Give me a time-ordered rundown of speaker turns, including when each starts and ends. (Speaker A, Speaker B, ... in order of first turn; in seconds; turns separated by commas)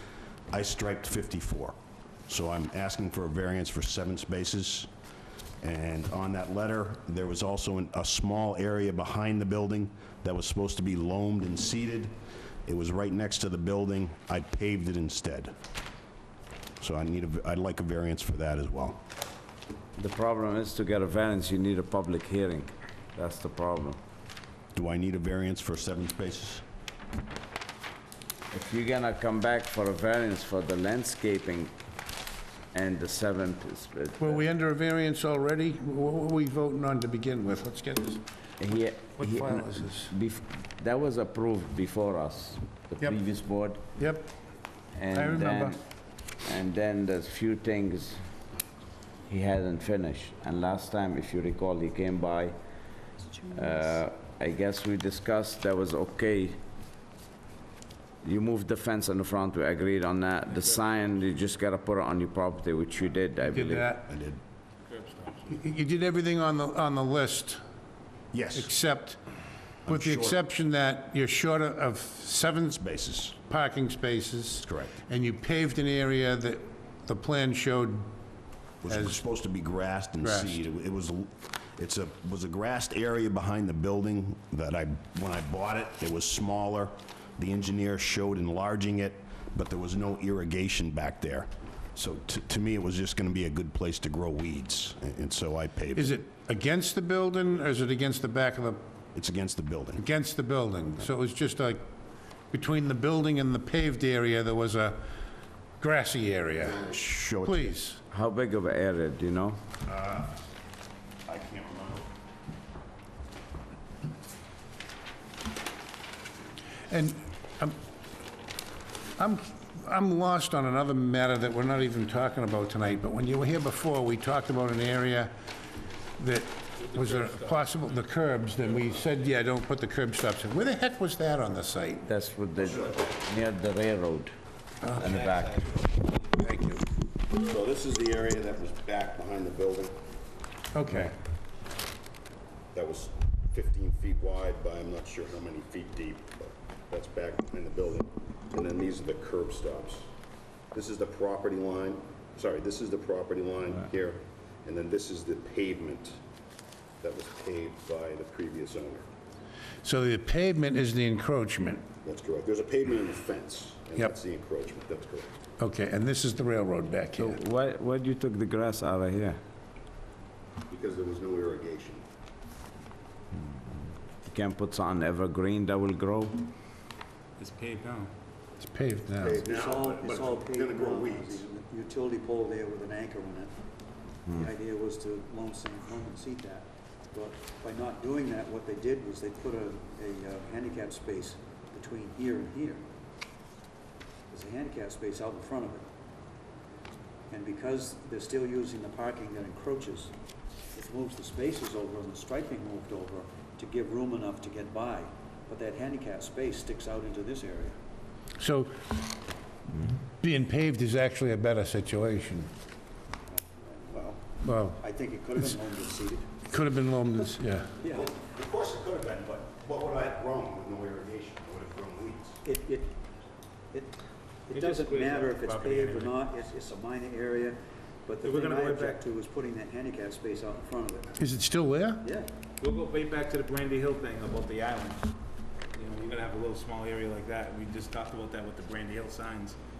Speaker A: 0.5-1.8, Speaker A: 2.3-4.9, Speaker A: 5.6-12.1, Speaker A: 12.6-15.5, Speaker A: 16.8-19.0, Speaker B: 20.0-24.0, Speaker A: 24.7-26.6, Speaker B: 28.5-31.7, Speaker B: 32.7-34.4, Speaker C: 34.2-38.2, Speaker B: 38.6-43.8, Speaker C: 39.2-40.1, Speaker C: 44.0-44.3, Speaker B: 44.9-45.8, Speaker C: 45.1-45.8, Speaker B: 46.4-48.2, Speaker B: 49.3-52.5, Speaker B: 53.5-56.6, Speaker B: 58.2-63.9, Speaker C: 63.5-64.1, Speaker A: 64.1-64.4, Speaker D: 64.9-65.6, Speaker C: 65.5-67.6, Speaker A: 68.3-68.7, Speaker C: 68.5-69.2, Speaker A: 69.8-70.4, Speaker C: 69.9-72.8, Speaker A: 72.7-73.4, Speaker C: 73.3-78.1, Speaker A: 74.6-75.0, Speaker A: 78.8-96.2, Speaker C: 78.8-79.2, Speaker C: 80.2-80.6, Speaker C: 95.9-98.8, Speaker A: 99.1-100.0, Speaker C: 100.0-101.8, Speaker C: 102.5-105.1, Speaker C: 105.8-106.9, Speaker A: 106.6-107.8, Speaker C: 107.4-108.0, Speaker B: 108.1-109.6, Speaker A: 109.8-110.4, Speaker A: 111.2-112.1, Speaker C: 116.9-117.7, Speaker C: 119.2-125.3, Speaker C: 126.2-132.1, Speaker D: 126.8-127.7, Speaker D: 128.6-129.2, Speaker B: 132.1-134.3, Speaker C: 134.8-135.1, Speaker D: 134.9-136.4, Speaker B: 135.0-135.6, Speaker C: 136.4-136.8, Speaker A: 137.3-140.0, Speaker C: 140.7-141.1, Speaker A: 142.7-150.1, Speaker A: 150.7-156.2, Speaker A: 157.0-159.1, Speaker C: 159.8-161.8, Speaker A: 162.0-165.3, Speaker C: 165.6-167.4, Speaker B: 167.2-169.4, Speaker A: 170.7-172.0, Speaker B: 174.2-176.4, Speaker D: 177.4-178.1, Speaker C: 178.6-179.4, Speaker A: 179.2-181.4, Speaker E: 179.4-183.5, Speaker E: 184.3-192.8, Speaker E: 194.3-195.8, Speaker E: 197.3-200.1, Speaker E: 200.7-207.8, Speaker C: 208.4-208.8, Speaker C: 210.2-212.5, Speaker E: 213.3-216.4, Speaker C: 214.4-214.8, Speaker C: 216.4-217.7, Speaker E: 217.8-218.1, Speaker A: 217.8-222.4, Speaker E: 222.4-222.9, Speaker E: 223.7-231.2, Speaker D: 224.5-226.3, Speaker D: 228.2-229.0, Speaker C: 231.2-232.1, Speaker E: 232.0-232.3, Speaker D: 232.6-235.1, Speaker D: 235.7-239.6